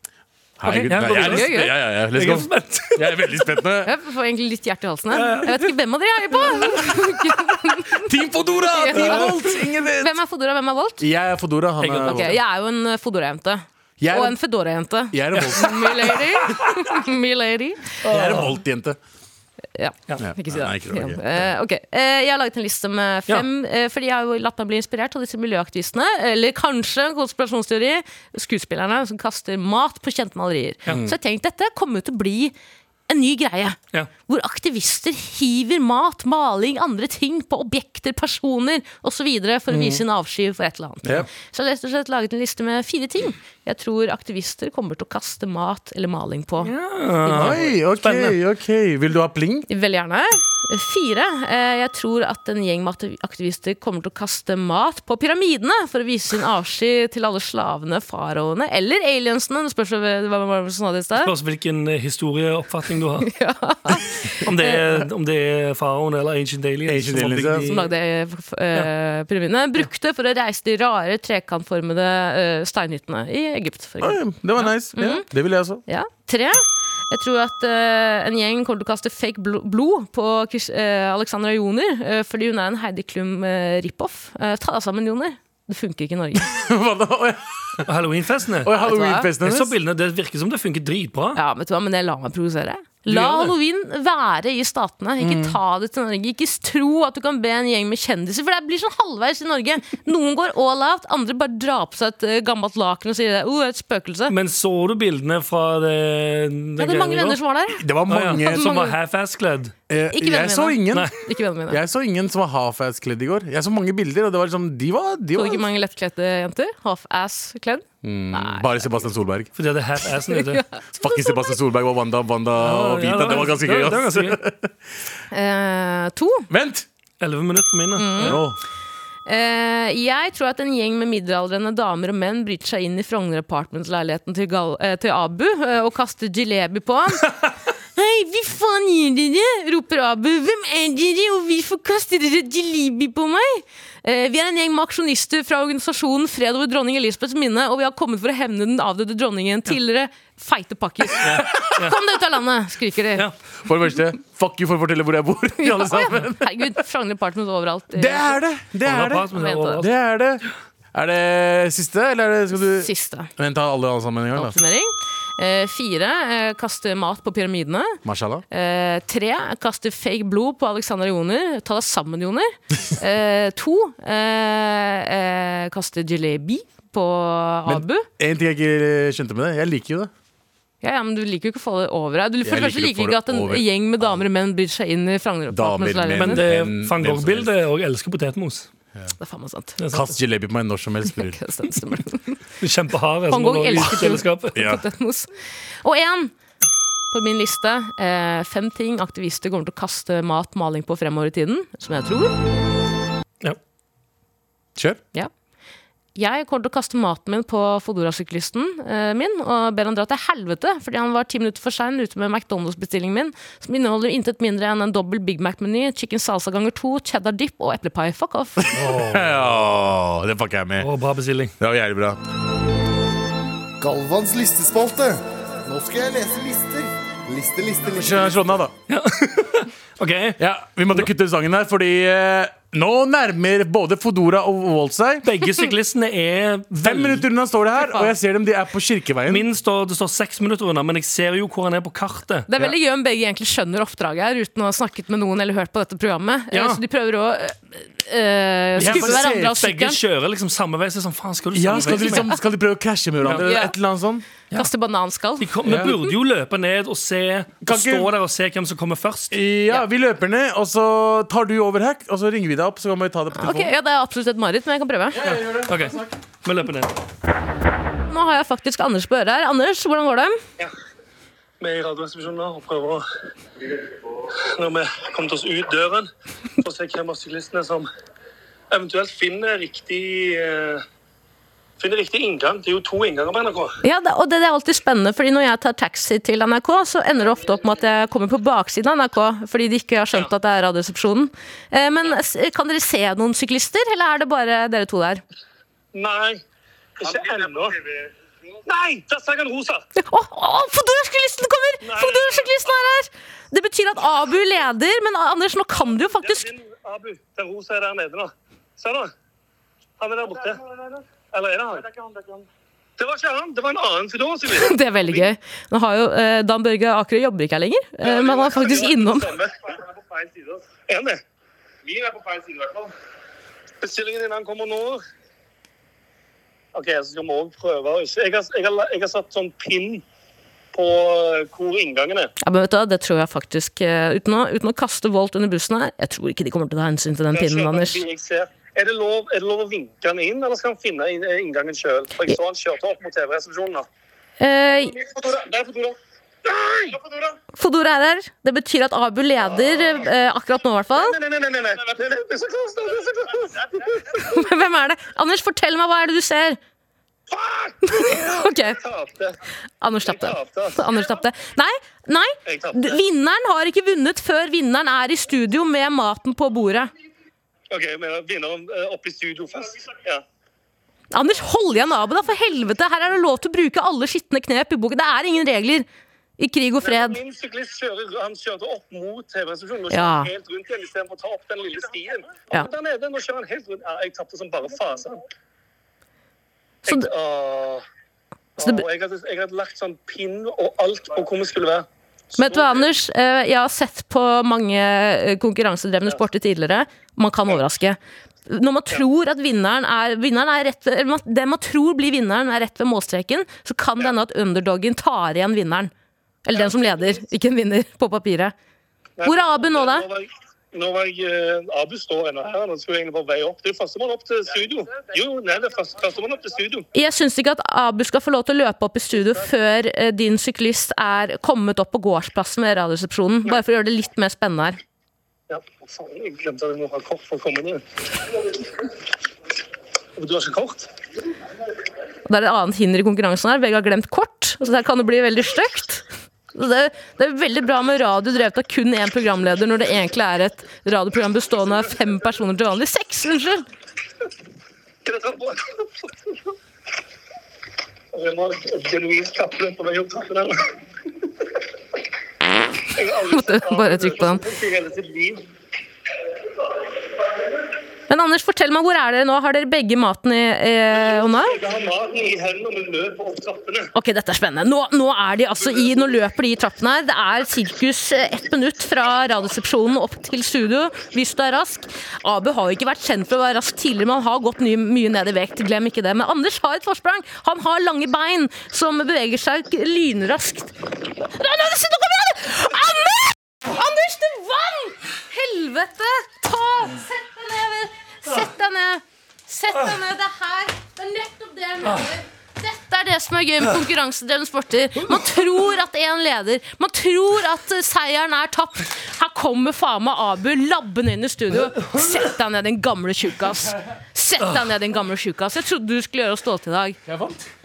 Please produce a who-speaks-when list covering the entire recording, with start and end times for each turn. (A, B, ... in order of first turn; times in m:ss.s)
0:00.6-0:03.9 A
0:00.6-0:03.4 B
0:01.1-0:01.7 C
0:03.8-0:08.0 C
0:05.1-0:05.7 B
0:07.8-0:10.2 A
0:08.7-0:11.0 C
0:09.0-0:09.3 B
0:11.0-0:12.3 A
0:11.8-0:12.4 B
0:12.0-0:18.0 C
0:14.0-0:14.4 A
0:15.1-0:16.3 A
0:15.3-0:15.6 B
0:18.0-0:18.6 B
0:18.0-0:19.0 A
0:19.8-0:32.5 C
0:20.2-0:21.5 A
0:30.9-0:31.1 A
0:33.1-0:47.6 C
0:39.7-0:40.0 A
0:46.6-0:48.4 B
0:47.3-0:49.7 A
0:49.7-1:01.3 C
1:01.2-1:03.3 B
1:03.2-1:04.8 C
1:04.4-1:07.9 B
1:06.8-1:07.7 A
1:07.6-1:14.2 C
1:14.0-1:15.8 A
1:14.9-1:15.2 C
1:15.8-1:26.5 C
1:26.4-1:27.8 A
1:27.8-1:28.7 B
1:28.6-1:29.7 A
1:28.7-1:29.3 C
1:29.4-1:31.4 B
1:31.3-1:44.3 C
1:33.1-1:33.5 B
1:35.2-1:35.6 A
1:44.3-1:47.4 B
1:46.8-1:47.8 C
1:47.7-1:48.8 A
1:48.1-1:49.7 B
1:48.5-1:48.9 C
1:49.9-1:51.1 A
1:50.1-1:51.8 C
1:51.7-1:55.6 A
1:55.3-1:58.7 C
1:58.0-1:59.5 A
1:59.6-2:00.6 B
2:00.3-2:01.5 C
2:00.9-2:04.7 A
2:02.6-2:04.4 B
2:05.3-2:06.5 C
2:06.5-2:06.8 A
2:07.2-2:08.4 B
2:08.0-2:08.4 C
2:08.2-2:08.6 A
2:09.2-2:17.3 C
2:17.9-2:33.3 C
2:31.2-2:32.0 B
2:33.6-2:36.7 A
2:35.6-2:38.4 C
2:37.9-2:44.6 A
2:38.8-2:39.9 B
2:39.3-2:39.8 C
2:42.7-2:43.3 C
2:44.4-2:48.0 C
2:48.0-2:48.4 A
2:48.5-2:58.1 C
2:57.6-3:00.1 A
3:00.8-3:06.4 C
3:02.4-3:04.2 A
3:05.5-3:07.5 A
3:06.1-3:08.7 B
3:09.2-3:09.8 C
3:09.8-3:10.1 B
3:09.9-3:11.4 A
3:11.1-3:12.4 C
3:12.6-3:14.6 B
3:13.3-3:15.3 C
3:14.5-3:14.8 A
3:15.8-3:16.3 C
3:17.1-3:22.3 C
3:24.8-3:25.0 A
3:26.1-3:38.7 C
3:38.6-3:40.9 A
3:38.7-3:39.4 B
3:40.8-3:41.5 B
3:41.6-3:42.2 A
3:43.8-3:48.3 D
3:47.9-3:48.7 A
3:48.9-3:50.4 B
3:50.4-3:55.3 A
3:55.2-3:57.2 B
3:56.8-3:59.4 A
3:57.8-3:58.1 C
3:59.3-4:02.5 B
4:02.5-4:10.0 C
4:06.5-4:06.8 B
4:08.8-4:09.5 A
4:08.8-4:12.3 B
4:11.5-4:14.3 A
4:11.8-4:12.4 C
4:13.4-4:13.7 C
4:14.5-4:16.1 C
4:15.4-4:19.3 B
4:15.6-4:15.9 A
4:17.6-4:18.1 A
4:19.3-4:23.7 A
4:23.3-4:25.2 C
4:25.1-4:26.1 A
4:25.2-4:26.9 B
4:28.1-4:30.4 C
4:31.6-4:33.0 E
4:34.3-4:36.1 E
4:36.6-4:37.9 E
4:38.7-4:40.8 E
4:41.8-4:43.8 E
4:43.8-4:55.2 C
4:55.9-4:56.4 E
4:57.0-4:58.0 E
4:58.6-4:59.8 E
5:00.0-5:06.5 C
5:01.8-5:02.7 E
5:06.0-5:09.1 E
5:10.0-5:12.4 E
5:13.0-5:15.3 E
5:14.5-5:19.4 C
5:18.0-5:21.2 E
5:21.8-5:22.9 E
5:23.8-5:25.0 E
5:26.7-5:30.0 E
5:30.7-5:32.3 E
5:32.4-5:38.0 C
5:37.3-5:43.9 E
5:44.4-5:45.0 C
5:44.8-5:47.3 E
5:47.6-5:51.2 C
5:50.9-5:54.0 E
5:54.1-5:56.6 C
5:57.3-5:59.4 E
5:57.8-5:58.8 C
5:59.8-6:06.9 C
6:00.0-6:01.0 E
6:02.4-6:03.0 E
6:07.7-6:10.2 E
6:11.1-6:15.8 C
6:16.4-6:17.2 C
6:16.8-6:25.2 E
6:19.9-6:20.3 C
6:26.8-6:27.8 E
6:28.6-6:32.9 E
6:28.6-6:28.8 C
6:32.4-6:45.9 C
6:46.4-6:48.5 C
6:46.5-6:46.9 E
6:49.2-6:56.8 E
6:49.2-6:50.1 C
6:56.9-7:04.8 C
7:05.5-7:07.8 E
7:10.2-7:10.9 E
7:12.2-7:23.6 C
7:25.0-7:25.8 E
7:28.1-7:30.6 E
7:32.9-7:35.4 E
7:33.2-7:34.4 C
7:38.1-7:41.6 C
7:41.0-7:43.9 E
7:43.9-8:00.7 C
8:01.3-8:27.0 C
8:21.8-8:22.1 B
8:27.0-8:27.4 A